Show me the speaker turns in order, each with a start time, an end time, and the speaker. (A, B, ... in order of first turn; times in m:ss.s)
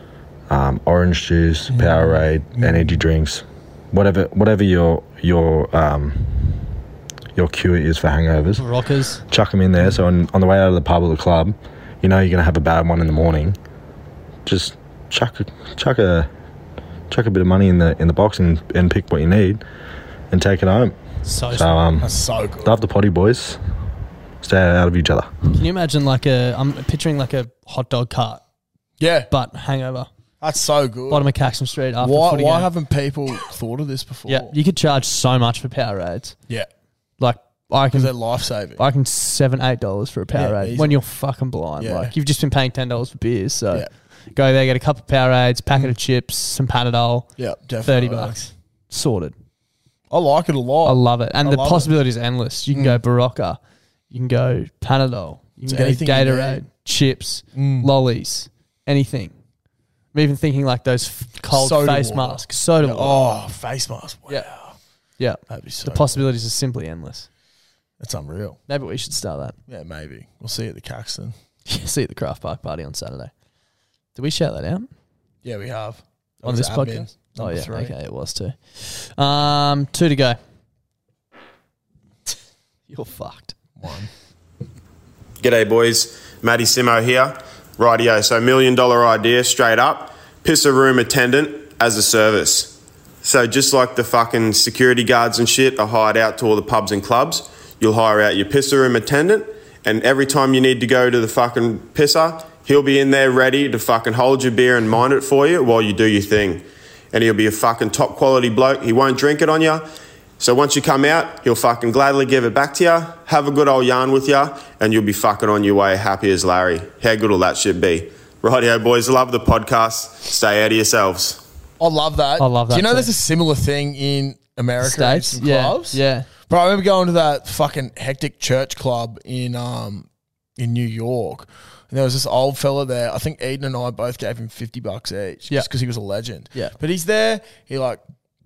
0:00.5-0:06.6 A
0:01.7-0:02.9 B
0:07.4-0:08.6 A
0:08.6-0:09.2 C
0:09.3-0:13.6 A
0:14.4-0:16.3 A
0:17.1-0:19.6 A
0:20.3-0:23.6 A
0:21.2-0:21.8 C
0:22.0-0:22.8 B
0:24.4-0:25.3 A
0:25.6-0:28.4 C
0:29.0-0:29.3 B
0:29.3-0:30.1 C
0:30.4-0:31.3 B
0:31.1-0:32.7 C
0:32.0-0:34.5 B
0:34.3-0:36.4 C
0:37.2-0:38.1 C
0:37.9-0:38.8 B
0:38.8-0:47.3 C
0:40.3-0:41.0 B
0:41.8-0:42.1 B
0:47.4-0:48.4 B
0:47.8-0:49.4 C
0:50.1-0:51.9 B
0:50.8-0:53.6 C
0:52.7-0:53.0 B
0:54.1-0:59.3 C
0:55.6-0:56.6 B
0:57.5-0:57.9 B
1:00.1-1:03.2 C
1:01.5-1:04.7 B
1:05.2-1:07.3 C
1:05.5-1:06.2 B
1:08.0-1:08.6 B
1:08.7-1:09.6 C
1:09.7-1:11.3 B
1:11.7-1:13.3 C
1:14.1-1:14.9 C
1:15.4-1:17.9 B
1:16.4-1:20.4 C
1:22.9-1:23.6 C
1:23.8-1:24.1 B
1:25.4-1:49.8 D
1:50.4-2:01.4 D
2:01.8-2:18.0 B
2:02.4-2:03.1 C
2:04.8-2:06.3 C